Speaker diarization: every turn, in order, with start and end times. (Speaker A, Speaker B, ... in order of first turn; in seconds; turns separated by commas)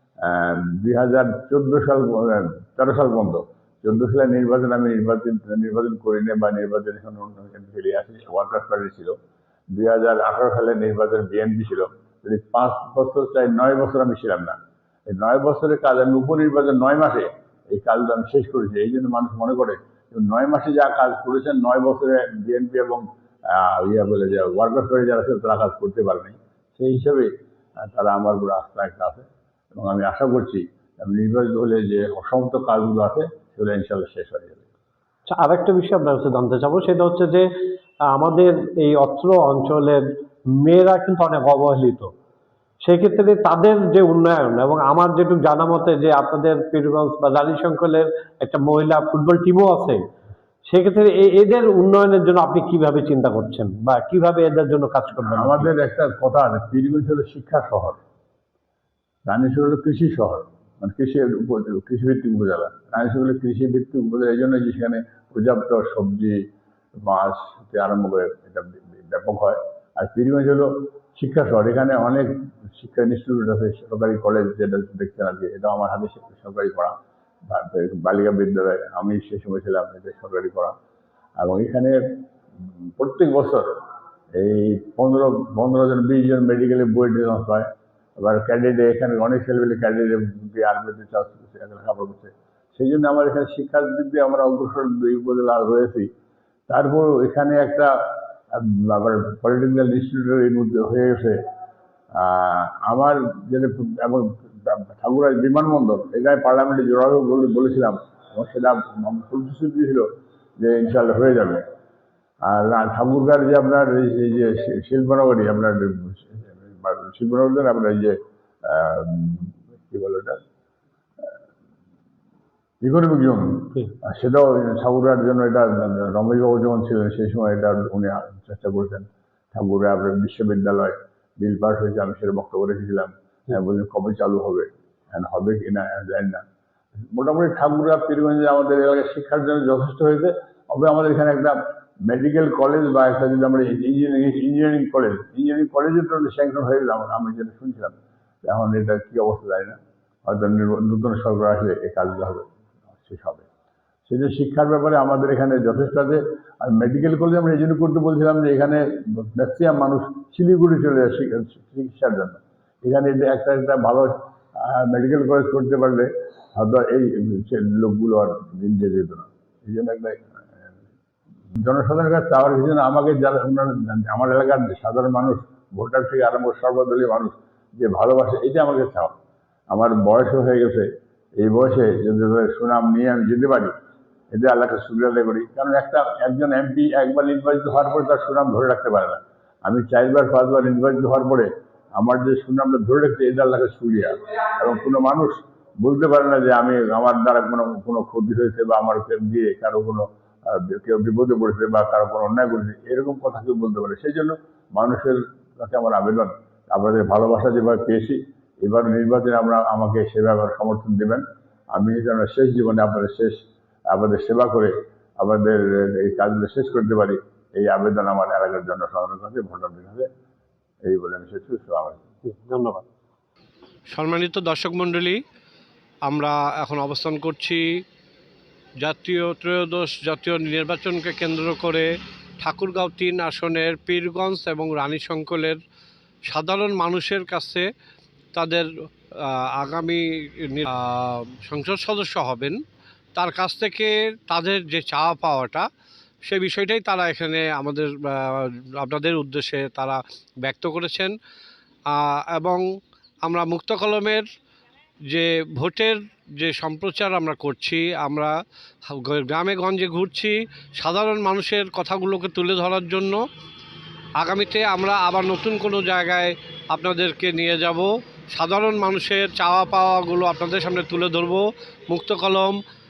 Speaker A: 0.2-9.2, Speaker A: 9.7-14.6, Speaker A: 15.1-27.3, Speaker A: 27.9-34.6, Speaker B: 35.3-37.5, Speaker B: 38.1-40.0, Speaker B: 40.6-42.1, Speaker B: 42.8-50.0, Speaker B: 50.7-55.7, Speaker A: 55.3-58.0, Speaker A: 59.3-66.4, Speaker A: 67.0-77.0, Speaker A: 77.5-80.8, Speaker A: 81.4-82.0, Speaker A: 82.6-83.8, Speaker A: 84.3-87.7, Speaker A: 88.2-96.1, Speaker A: 96.7-97.9, Speaker A: 98.5-101.4, Speaker A: 102.2-110.1, Speaker A: 110.6-111.6, Speaker A: 112.5-120.4, Speaker A: 122.8-136.4, Speaker A: 137.1-147.9, Speaker A: 148.5-153.5, Speaker A: 154.1-170.7, Speaker A: 171.6-179.1, Speaker A: 179.7-180.9, Speaker A: 181.4-183.7, Speaker A: 184.3-211.2, Speaker A: 211.8-213.4, Speaker A: 213.9-220.1, Speaker A: 220.9-222.0, Speaker B: 222.3-222.8, Speaker C: 223.9-225.2, Speaker C: 226.1-227.6, Speaker C: 228.8-231.9, Speaker C: 232.4-235.6, Speaker C: 236.3-237.6, Speaker C: 238.3-238.7, Speaker C: 239.6-240.0, Speaker C: 240.6-242.6, Speaker C: 243.2-245.6, Speaker C: 246.3-251.1, Speaker C: 251.9-252.6, Speaker C: 253.3-254.2, Speaker C: 255.1-258.3, Speaker C: 259.0-263.1, Speaker B: 261.0-263.1, Speaker C: 264.2-267.7, Speaker B: 264.4-265.8, Speaker B: 266.8-267.8, Speaker C: 268.4-269.6, Speaker B: 268.4-271.4, Speaker C: 270.1-271.0, Speaker B: 271.9-272.5, Speaker C: 272.0-272.4